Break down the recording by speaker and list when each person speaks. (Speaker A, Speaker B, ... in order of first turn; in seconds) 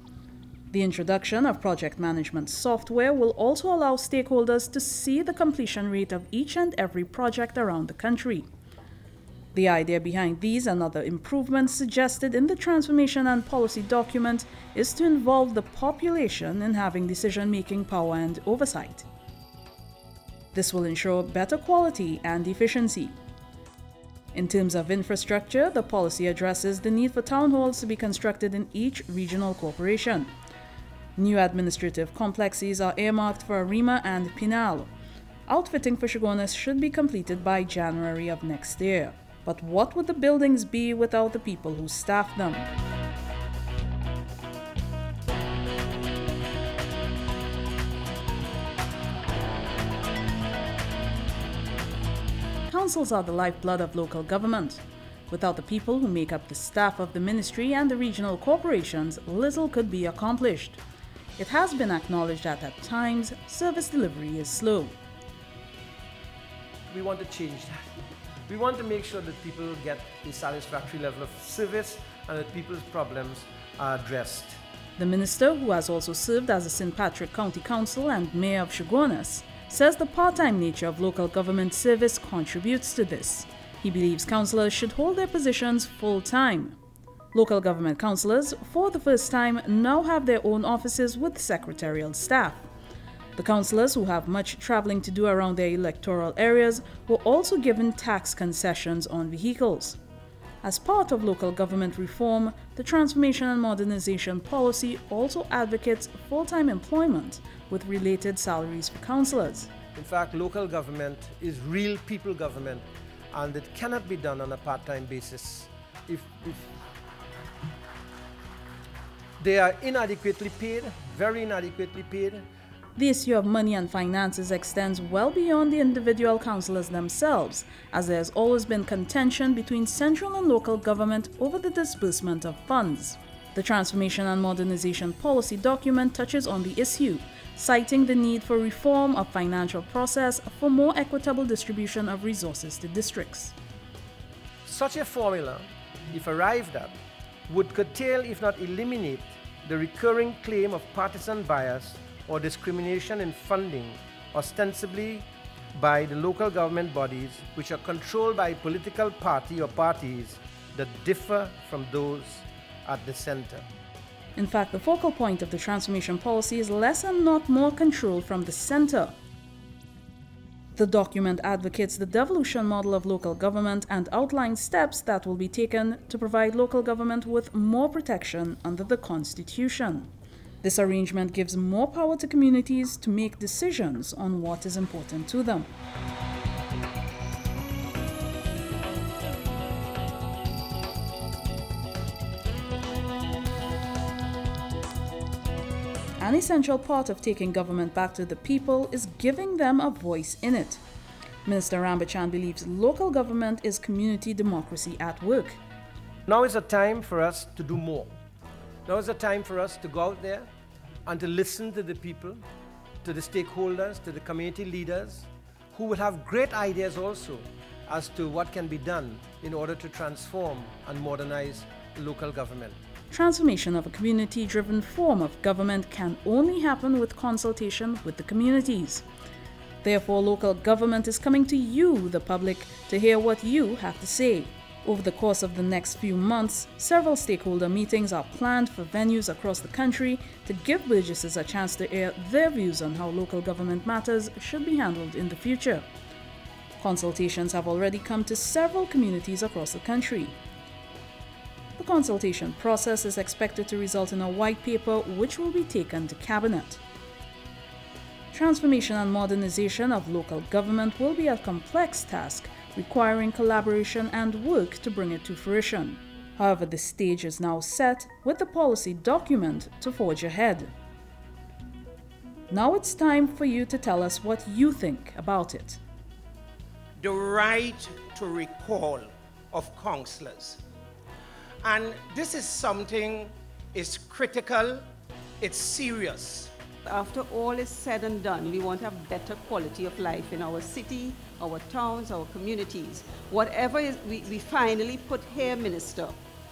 Speaker A: 0.7-8.5, 9.5-19.1, 20.5-23.1, 24.3-30.3, 31.1-34.9, 35.5-42.7, 52.7-60.8, 61.4-65.0, 75.0-86.8, 87.3-92.7, 93.3-100.0, 100.6-109.7, 123.0-143.5, 164.3-169.2, 170.8-180.1, 180.6-185.7, 196.2-200.8, 201.4-205.6, 223.1-229.0, 229.8-245.8, 246.8-250.4, 251.8-256.8, 258.3-270.7, 272.5-275.8
Speaker B: 66.9-67.8, 68.5-74.6, 109.9-116.7, 119.4-122.4, 144.6-147.0, 147.5-163.7, 206.3-208.1, 208.8-210.5, 211.1-212.4, 213.0-222.8
Speaker C: 277.0-280.6, 281.6-284.8, 285.4-286.5
Speaker D: 286.8-296.1